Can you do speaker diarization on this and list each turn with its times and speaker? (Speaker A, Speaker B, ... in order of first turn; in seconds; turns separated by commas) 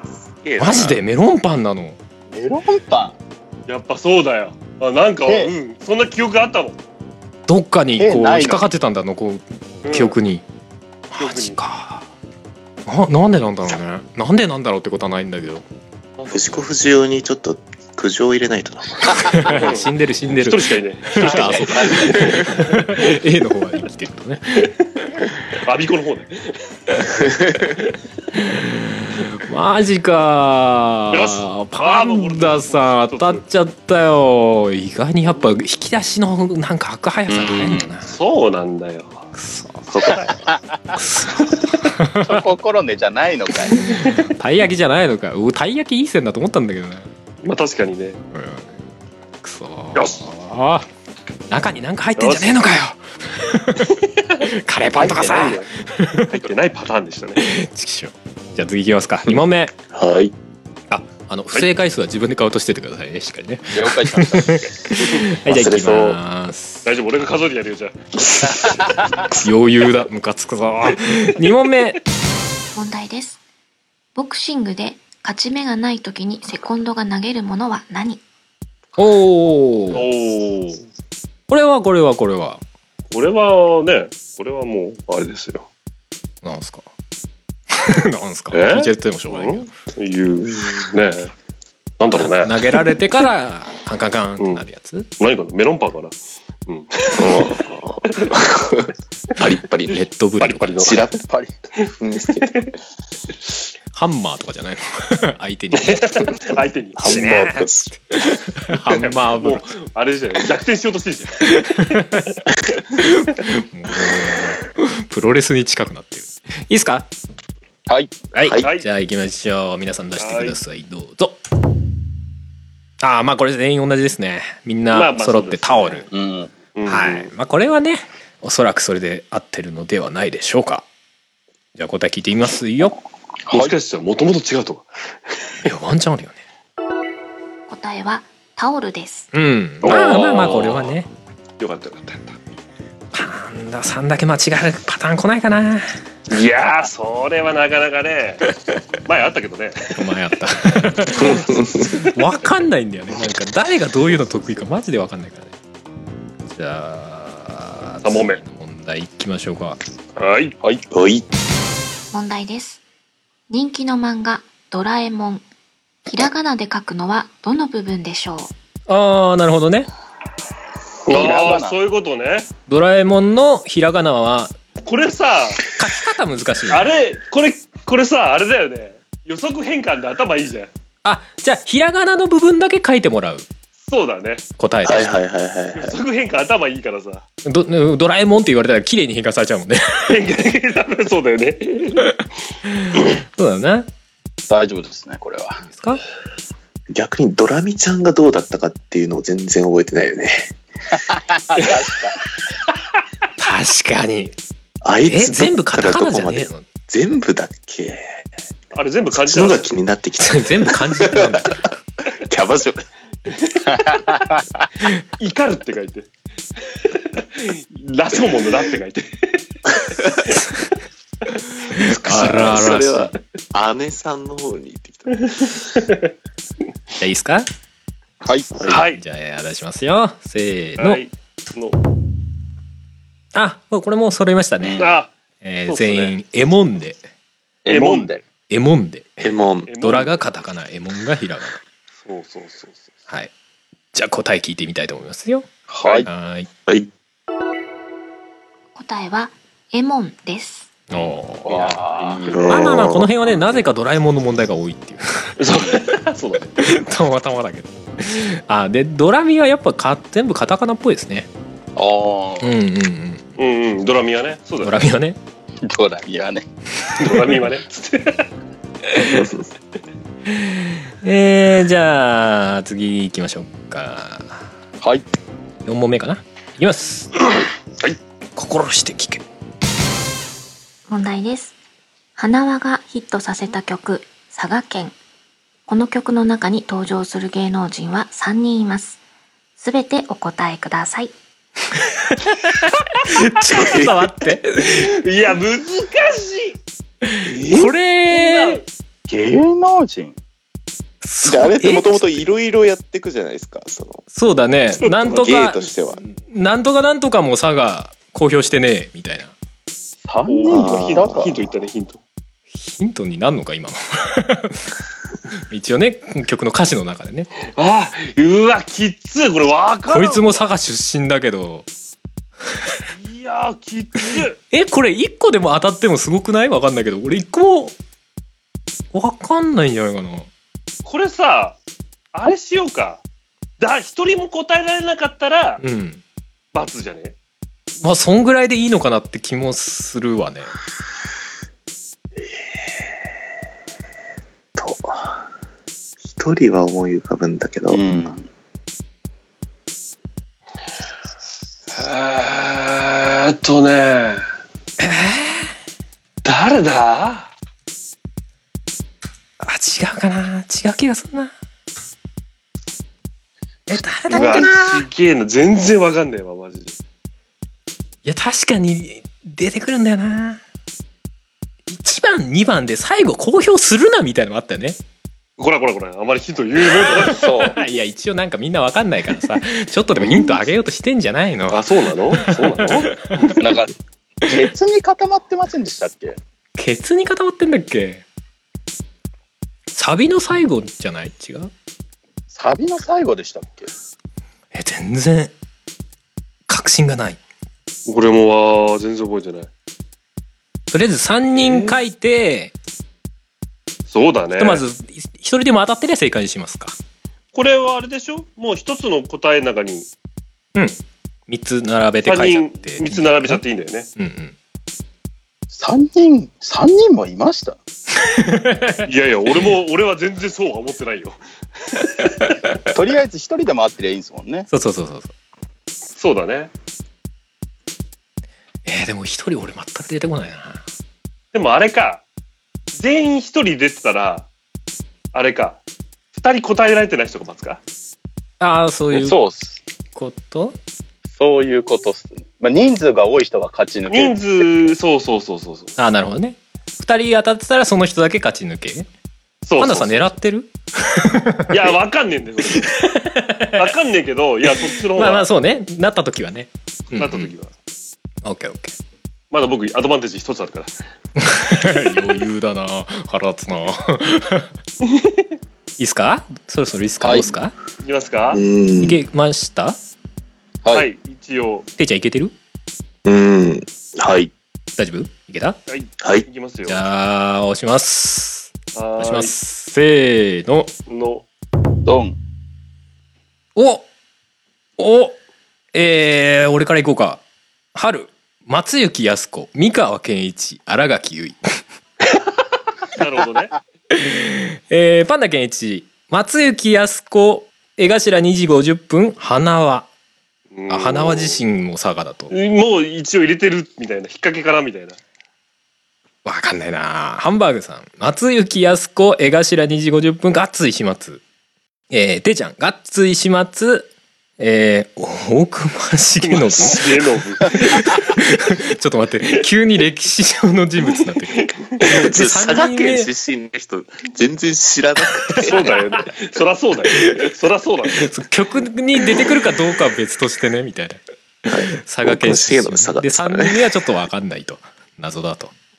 Speaker A: 0.4-1.0, Speaker B: 0.6-2.0, Speaker C: 2.3-3.1, Speaker D: 3.7-6.8, Speaker C: 5.3-5.5, Speaker B: 7.5-10.4, Speaker C: 8.0-8.6, Speaker D: 9.8-10.2, Speaker B: 11.1-12.1, Speaker D: 11.2-11.6, Speaker B: 12.9-15.7, Speaker D: 16.2-16.7, Speaker A: 16.3-19.5, Speaker B: 19.2-24.7, Speaker D: 19.5-23.0, Speaker A: 21.5-22.3, Speaker D: 24.6-24.8, Speaker D: 25.5-27.9, Speaker A: 27.3-27.6, Speaker B: 28.3-38.1, Speaker D: 31.1-33.4, Speaker C: 37.3-37.9, Speaker D: 38.0-39.3, Speaker B: 39.4-40.1, Speaker D: 40.0-40.4, Speaker C: 40.5-41.0, Speaker B: 41.0-42.5, Speaker C: 42.2-43.9, Speaker B: 43.7-47.1, Speaker D: 47.4-48.2, Speaker B: 48.3-48.7, Speaker B: 49.4-50.9, Speaker D: 50.0-50.2, Speaker B: 51.5-56.4, Speaker D: 52.2-52.6, Speaker D: 54.4-55.7, Speaker C: 54.9-55.6, Speaker D: 56.2-57.5, Speaker B: 57.4-59.7, Speaker A: 59.9-60.4, Speaker B: 60.9-66.8, Speaker C: 63.7-64.6, Speaker A: 65.4-66.2, Speaker D: 66.8-68.9, Speaker B: 69.4-72.0, Speaker E: 72.8-73.4, Speaker E: 74.2-78.2, Speaker B: 79.0-80.0, Speaker D: 79.9-80.8, Speaker B: 81.5-82.6, Speaker D: 83.1-85.7, Speaker B: 86.4-86.8, Speaker B: 87.7-89.7, Speaker D: 88.5-91.3, Speaker D: 92.0-92.8, Speaker B: 92.1-95.1, Speaker D: 94.4-94.7, Speaker D: 95.2-96.2, Speaker D: 96.7-98.3, Speaker A: 97.1-100.0, Speaker B: 99.9-101.0, Speaker D: 100.4-101.0, Speaker A: 100.8-101.2, Speaker C: 101.3-101.5, Speaker D: 101.8-102.7, Speaker A: 102.0-102.7, Speaker B: 103.9-106.5, Speaker D: 105.7-107.4, Speaker A: 107.0-108.0, Speaker B: 107.0-109.7, Speaker D: 108.9-111.6, Speaker B: 111.5-112.3, Speaker B: 113.0-117.1, Speaker C: 117.9-118.1, Speaker B: 118.3-121.4, Speaker A: 118.4-118.7, Speaker D: 118.6-118.9, Speaker D: 120.2-120.6, Speaker B: 123.0-126.1, Speaker D: 124.9-126.1, Speaker C: 126.1-126.5, Speaker D: 126.8-127.3, Speaker B: 126.9-130.8, Speaker B: 131.8-133.0, Speaker C: 133.5-133.7, Speaker D: 133.5-134.9, Speaker B: 135.7-136.4, Speaker E: 137.7-139.3, Speaker B: 139.3-141.1, Speaker D: 139.8-141.0, Speaker D: 141.6-142.4, Speaker B: 143.1-145.9, Speaker D: 146.3-148.5, Speaker D: 149.1-150.0, Speaker B: 149.9-155.5, Speaker A: 151.2-151.9, Speaker B: 156.5-159.8, Speaker D: 158.0-158.4, Speaker D: 160.2-160.6, Speaker A: 160.9-161.3, Speaker E: 162.1-162.8, Speaker E: 163.5-165.4, Speaker E: 166.1-168.5, Speaker B: 168.9-169.9, Speaker C: 171.1-171.8, Speaker D: 171.1-172.5, Speaker B: 172.7-174.5, Speaker D: 174.8-175.7, Speaker B: 175.8-176.9, Speaker D: 176.7-180.7, Speaker B: 181.0-183.5, Speaker D: 183.9-184.4, Speaker B: 184.6-185.2, Speaker A: 184.8-186.0, Speaker D: 185.8-187.2, Speaker B: 187.4-190.2, Speaker D: 190.1-192.1, Speaker B: 192.7-193.9, Speaker C: 194.5-195.6, Speaker B: 195.7-196.0, Speaker A: 196.9-200.5, Speaker C: 201.0-202.2, Speaker B: 203.4-204.3, Speaker A: 204.8-208.2, Speaker B: 205.1-206.7, Speaker D: 208.7-209.7, Speaker A: 209.1-211.6, Speaker B: 210.2-211.7, Speaker A: 212.1-212.8, Speaker C: 213.7-214.4, Speaker D: 215.2-216.1, Speaker D: 216.7-219.4, Speaker D: 220.0-220.4, Speaker B: 221.7-223.1, Speaker A: 221.7-225.3, Speaker D: 222.2-222.6, Speaker D: 225.2-226.1, Speaker B: 227.0-227.5, Speaker C: 228.2-228.5, Speaker A: 228.6-228.8, Speaker D: 228.7-229.0, Speaker B: 228.7-231.0, Speaker D: 230.8-231.8, Speaker B: 233.3-234.8, Speaker C: 234.6-234.9, Speaker D: 234.8-235.1, Speaker B: 235.4-237.0, Speaker D: 235.7-236.2, Speaker C: 237.6-238.2, Speaker D: 237.7-238.1, Speaker B: 238.5-241.6, Speaker A: 239.2-239.7, Speaker D: 239.7-240.2, Speaker D: 242.0-242.9, Speaker B: 243.9-245.5, Speaker C: 245.7-246.1, Speaker B: 246.1-246.5, Speaker E: 248.8-250.7, Speaker B: 250.9-251.8, Speaker C: 251.4-252.4, Speaker D: 251.9-252.7, Speaker A: 252.3-253.2, Speaker B: 252.5-255.8, Speaker D: 255.4-256.5, Speaker B: 256.6-261.3, Speaker C: 261.8-262.5, Speaker B: 262.4-263.2, Speaker D: 263.4-264.9, Speaker B: 264.6-265.2, Speaker C: 265.6-266.5, Speaker D: 267.0-268.3, Speaker B: 270.3-274.4, Speaker B: 275.6-277.3, Speaker B: 278.4-279.2, Speaker E: 280.9-281.6, Speaker E: 282.2-284.9, Speaker E: 285.7-289.0, Speaker E: 289.6-291.1, Speaker B: 291.8-295.0, Speaker A: 293.5-294.0, Speaker D: 294.6-296.6, Speaker B: 297.1-298.6, Speaker A: 297.2-297.7, Speaker D: 298.1-298.6, Speaker C: 299.1-300.2, Speaker B: 301.0-302.1, Speaker A: 301.2-304.0, Speaker B: 304.1-309.3, Speaker D: 304.9-305.2, Speaker A: 305.0-306.0, Speaker C: 310.1-311.4, Speaker D: 310.3-312.0, Speaker A: 310.5-311.5, Speaker B: 312.6-314.7, Speaker B: 315.5-317.3, Speaker D: 317.5-320.4, Speaker B: 319.9-321.7, Speaker D: 322.9-324.4, Speaker B: 324.2-327.7, Speaker B: 328.9-330.3, Speaker D: 330.9-331.6, Speaker D: 332.1-333.0, Speaker D: 333.6-335.6, Speaker B: 335.6-336.0, Speaker D: 336.5-337.1, Speaker B: 337.8-340.5, Speaker A: 344.6-345.3, Speaker A: 346.0-347.9, Speaker C: 347.7-348.3, Speaker D: 351.7-354.2, Speaker B: 354.8-355.5, Speaker D: 356.2-357.3, Speaker B: 359.4-361.3, Speaker B: 363.7-364.9, Speaker D: 364.1-366.8, Speaker B: 368.1-370.4, Speaker B: 371.7-374.8, Speaker D: 375.4-377.4, Speaker B: 376.8-383.4, Speaker C: 377.1-377.6, Speaker D: 380.0-380.4, Speaker D: 381.5-383.4, Speaker C: 383.4-386.2, Speaker B: 386.6-388.0, Speaker B: 389.7-391.5, Speaker C: 392.3-393.7, Speaker B: 394.5-395.3, Speaker B: 396.5-397.2, Speaker D: 397.9-399.5, Speaker B: 400.7-402.5, Speaker D: 401.3-401.8, Speaker D: 403.9-404.6, Speaker B: 404.4-406.8, Speaker D: 407.3-409.9, Speaker B: 411.3-413.4, Speaker D: 412.1-413.9, Speaker B: 414.0-414.4, Speaker C: 415.5-417.6, Speaker B: 418.0-419.5, Speaker D: 418.9-422.2, Speaker C: 422.7-424.5, Speaker B: 424.5-425.1, Speaker D: 426.0-426.5, Speaker B: 428.7-430.6, Speaker D: 431.3-432.0, Speaker D: 432.7-434.3, Speaker D: 435.1-435.6, Speaker D: 436.1-437.6, Speaker B: 438.4-439.2, Speaker C: 438.9-439.6, Speaker B: 439.9-440.6, Speaker C: 441.2-444.4, Speaker D: 443.9-445.8, Speaker B: 445.8-448.9, Speaker D: 449.4-450.1, Speaker B: 449.6-451.8, Speaker D: 451.5-452.9, Speaker B: 452.5-453.7, Speaker D: 453.5-455.3, Speaker B: 454.5-457.3, Speaker D: 456.9-457.5, Speaker B: 458.2-458.7, Speaker D: 459.3-460.7, Speaker B: 461.2-464.5, Speaker D: 464.9-465.2, Speaker B: 465.8-467.5, Speaker C: 467.0-467.3, Speaker D: 467.8-468.4, Speaker A: 468.3-469.0, Speaker B: 468.8-469.8, Speaker D: 470.7-471.7, Speaker B: 471.8-472.3, Speaker A: 473.1-474.3, Speaker B: 474.8-475.6, Speaker D: 475.7-476.8, Speaker A: 476.0-476.3, Speaker B: 476.7-480.7, Speaker D: 478.8-479.3, Speaker D: 480.9-481.2, Speaker C: 481.9-482.2, Speaker B: 483.6-483.9, Speaker B: 484.8-485.2, Speaker B: 485.7-487.2, Speaker B: 487.8-491.4, Speaker D: 492.9-493.6, Speaker B: 493.9-499.9, Speaker D: 500.5-501.4, Speaker B: 500.7-502.3, Speaker D: 502.3-505.0, Speaker B: 506.2-511.2, Speaker B: 511.9-523.1, Speaker D: 516.2-518.0, Speaker D: 521.4-521.7, Speaker A: 521.9-525.8, Speaker B: 525.3-525.7, Speaker D: 525.4-528.1, Speaker B: 526.9-527.2, Speaker B: 528.0-535.5, Speaker A: 531.5-533.8